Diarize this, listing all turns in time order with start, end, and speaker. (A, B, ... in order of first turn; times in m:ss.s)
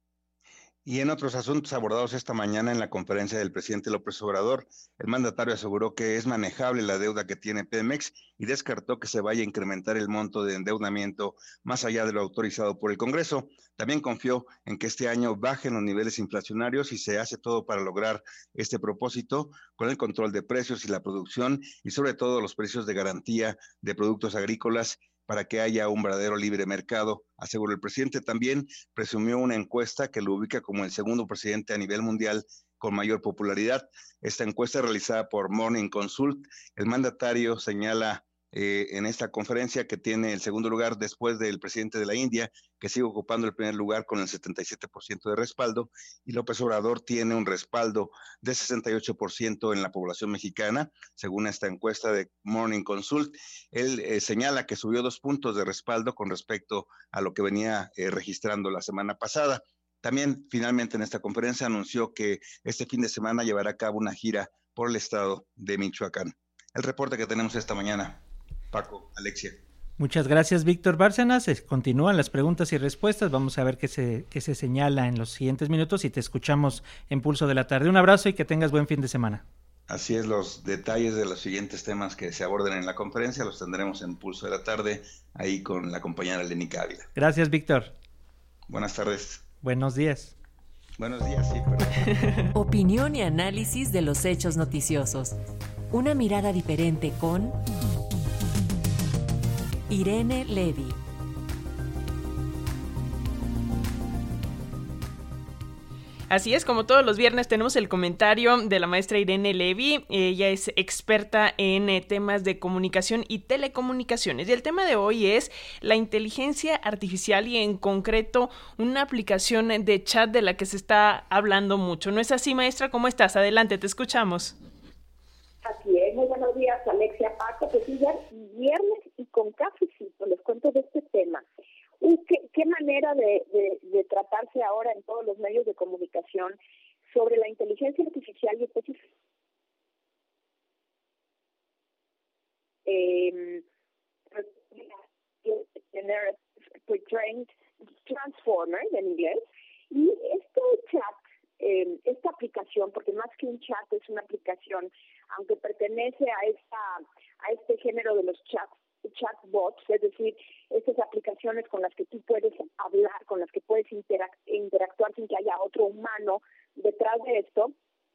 0:00.9-1:08.2 A
1:08.7-1:09.6 A
1:10.0-1:19.4 B
1:19.9-1:27.1 A
1:27.2-1:27.9 B
1:28.7-1:29.4 A
1:29.6-1:30.3 B
1:31.0-1:31.9 A
1:32.5-1:35.3 C
1:35.9-1:37.6 C
1:39.9-1:41.0 C
1:46.3-2:04.5 D
2:05.6-2:11.4 E
2:12.0-2:16.6 E
2:17.1-2:19.0 E
2:22.9-2:23.6 E
2:24.3-2:27.5 E
2:28.1-2:47.7 E